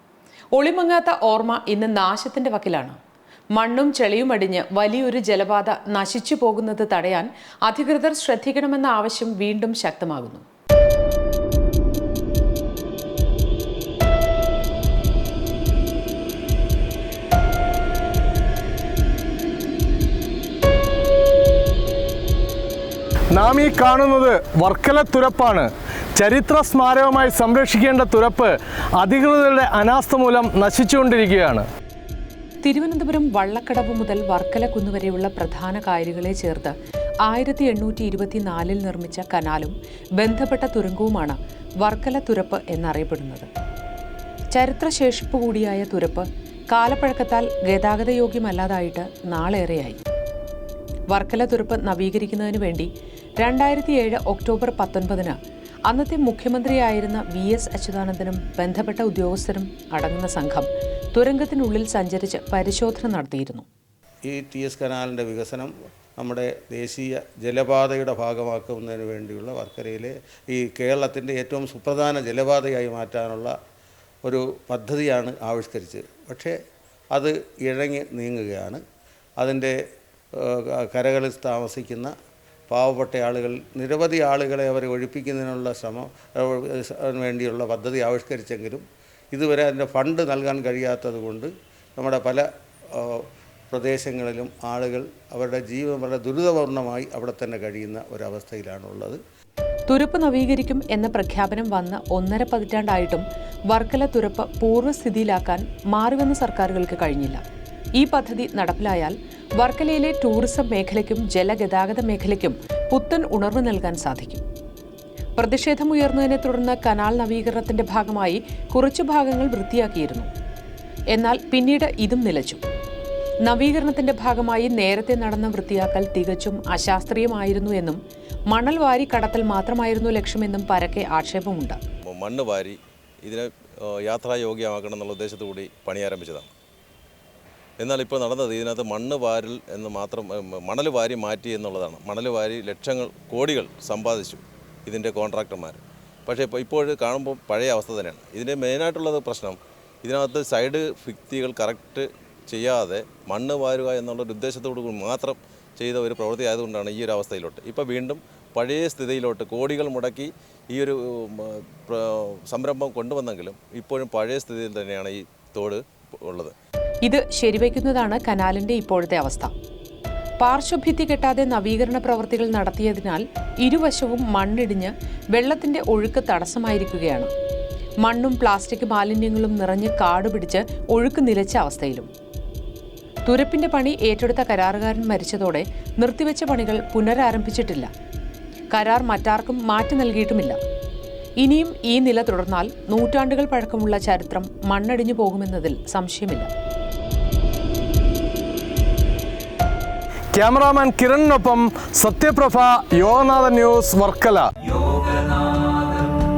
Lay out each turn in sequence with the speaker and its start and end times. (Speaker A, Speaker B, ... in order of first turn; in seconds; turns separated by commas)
Speaker A: 0.5-3.0, Speaker A: 3.5-10.4, Speaker B: 23.3-31.6, Speaker A: 32.6-43.5, Speaker A: 44.5-50.0, Speaker A: 51.1-52.9, Speaker A: 53.4-55.3, Speaker A: 55.9-63.6, Speaker C: 64.2-73.5, Speaker C: 74.2-76.5, Speaker C: 77.1-78.8, Speaker C: 79.4-79.8, Speaker C: 80.3-82.1, Speaker C: 82.7-99.2, Speaker A: 99.9-107.4, Speaker A: 108.0-114.4, Speaker A: 115.4-120.3, Speaker A: 121.1-122.6, Speaker A: 123.4-128.0, Speaker A: 128.5-131.8, Speaker D: 132.1-136.5, Speaker D: 137.8-166.5, Speaker A: 167.0-169.5, Speaker A: 170.4-177.3, Speaker A: 178.0-182.1, Speaker A: 183.2-187.9, Speaker A: 188.7-190.6, Speaker A: 191.4-196.5, Speaker B: 200.3-205.7